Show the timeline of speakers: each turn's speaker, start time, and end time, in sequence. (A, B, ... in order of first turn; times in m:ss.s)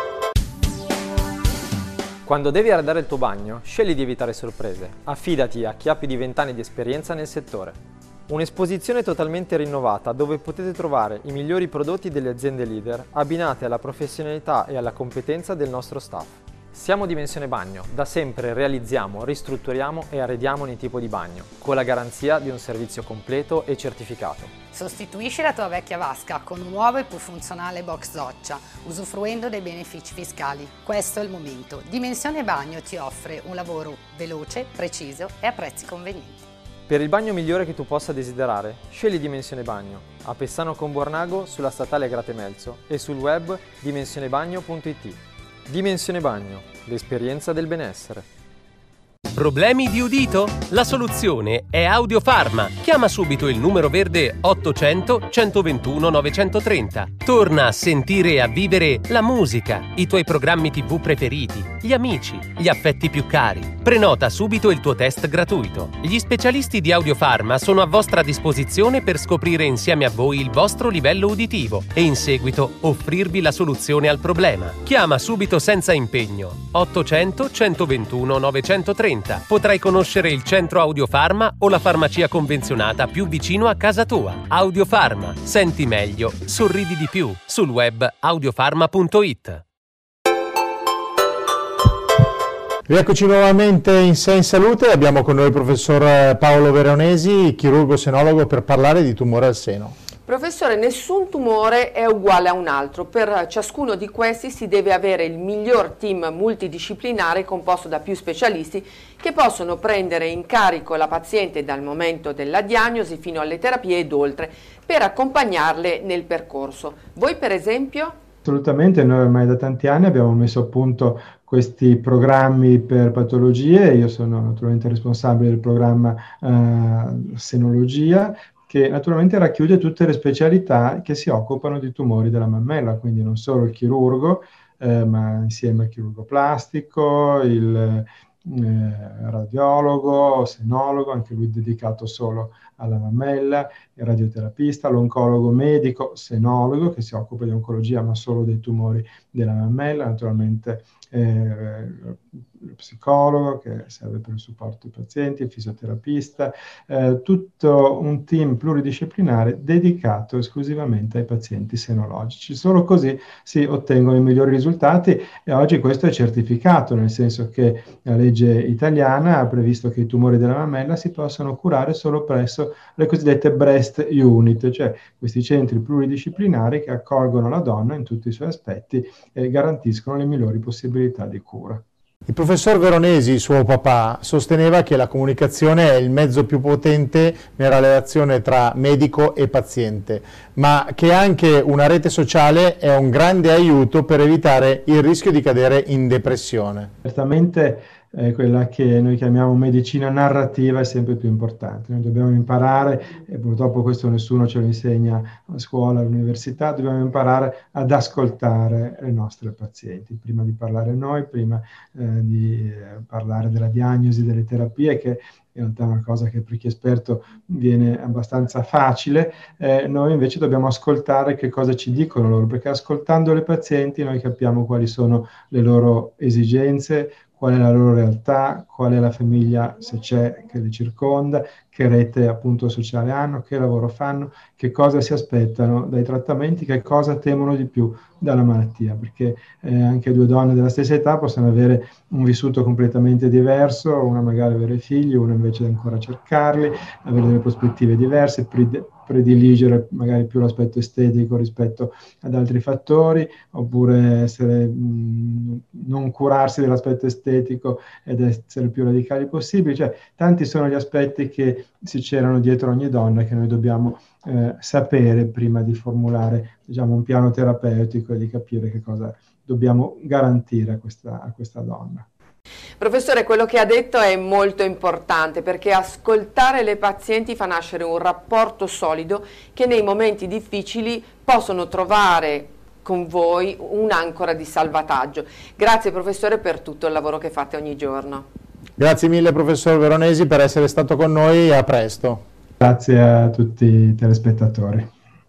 0:02.2-0:24.5 A
0:24.7-0:36.4 B
0:36.9-0:48.2 A
0:49.3-1:29.6 C
1:32.9-1:40.0 D
1:40.2-1:58.2 E
1:58.4-3:01.8 F
3:02.3-3:16.9 D
3:17.0-4:32.0 F
4:32.8-4:48.3 E
4:48.8-4:52.2 D
4:52.6-4:54.9 F